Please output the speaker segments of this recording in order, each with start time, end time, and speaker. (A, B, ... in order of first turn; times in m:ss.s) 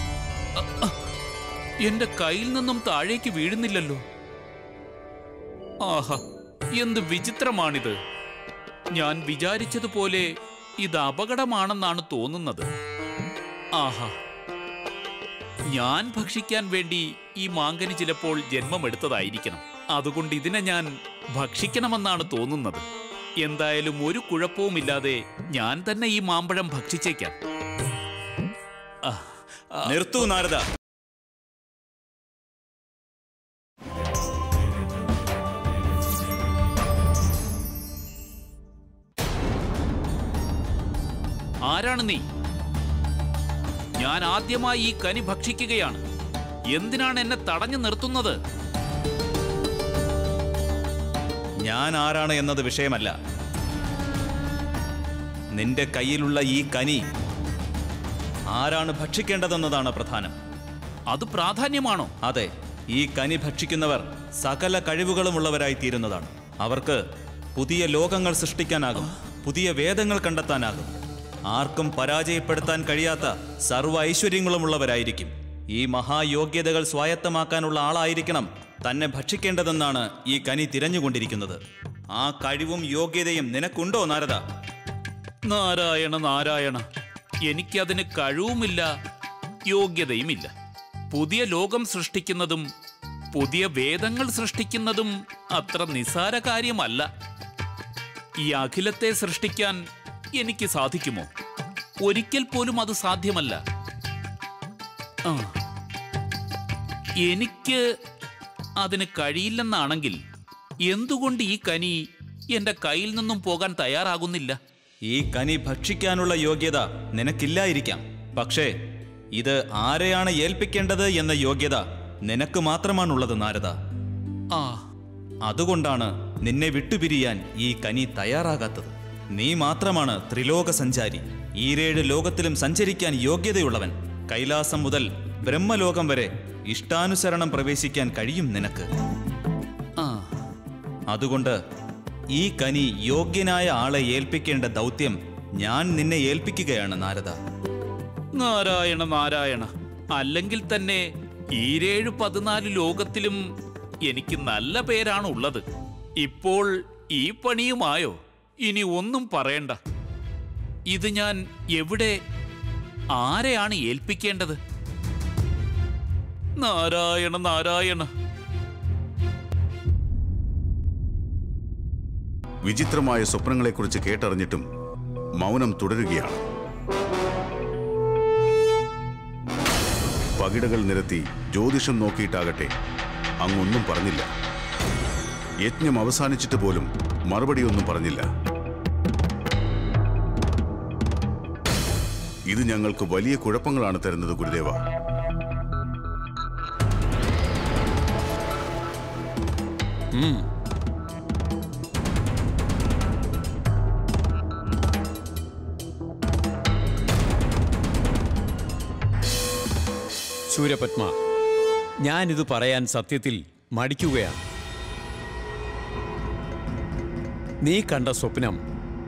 0:00.6-0:01.1 A
0:01.8-0:04.0 A
0:05.8-0:06.2 A
0:06.7-0:08.0 A
0:08.9-0:10.3 A
0:10.8-0:12.7 A
0:13.8-0:14.1 A
0:15.7-0:22.8 A
0:23.4-0:27.4 A
0:29.0-0:30.2 A
0:29.8-0:30.6 B
0:41.6-0:42.2 A
0:44.0-0:46.0 A
0:46.7-0:48.4 A
0:51.6-0:53.1 B
0:55.6-0:57.0 B
0:58.5-1:00.3 B
1:01.1-1:02.1 A
1:02.2-1:07.0 B
1:07.6-1:10.9 B
1:11.5-1:21.6 B
1:22.1-1:24.4 B
1:25.5-1:26.8 A
1:27.4-1:28.9 A
1:29.7-1:30.5 A
1:31.1-1:32.7 A
1:33.3-1:37.1 A
1:38.4-1:39.8 A
1:40.4-1:41.3 A
1:42.0-1:43.6 A
1:45.2-1:45.5 A
1:47.2-1:47.8 A
1:48.8-1:50.2 A
1:50.9-1:52.0 A
1:52.5-1:54.6 A
1:55.1-1:58.7 B
1:59.3-2:03.8 B
2:04.5-2:04.8 A
2:05.4-2:18.9 B
2:20.0-2:20.3 A
2:21.1-2:21.6 B
2:22.3-2:27.4 B
2:28.4-2:33.4 A
2:34.1-2:35.6 A
2:36.2-2:39.8 A
2:40.9-2:42.2 A
2:43.2-2:44.6 A
2:46.6-2:48.1 A
2:52.6-2:54.6 C
2:55.4-2:56.4 C
3:00.4-3:02.7 C
3:03.4-3:04.3 C
3:05.6-3:08.2 C
3:12.5-3:14.8 C
3:20.1-3:20.4 D
3:30.5-3:31.1 D
3:32.0-3:34.4 D
3:37.6-3:38.6 D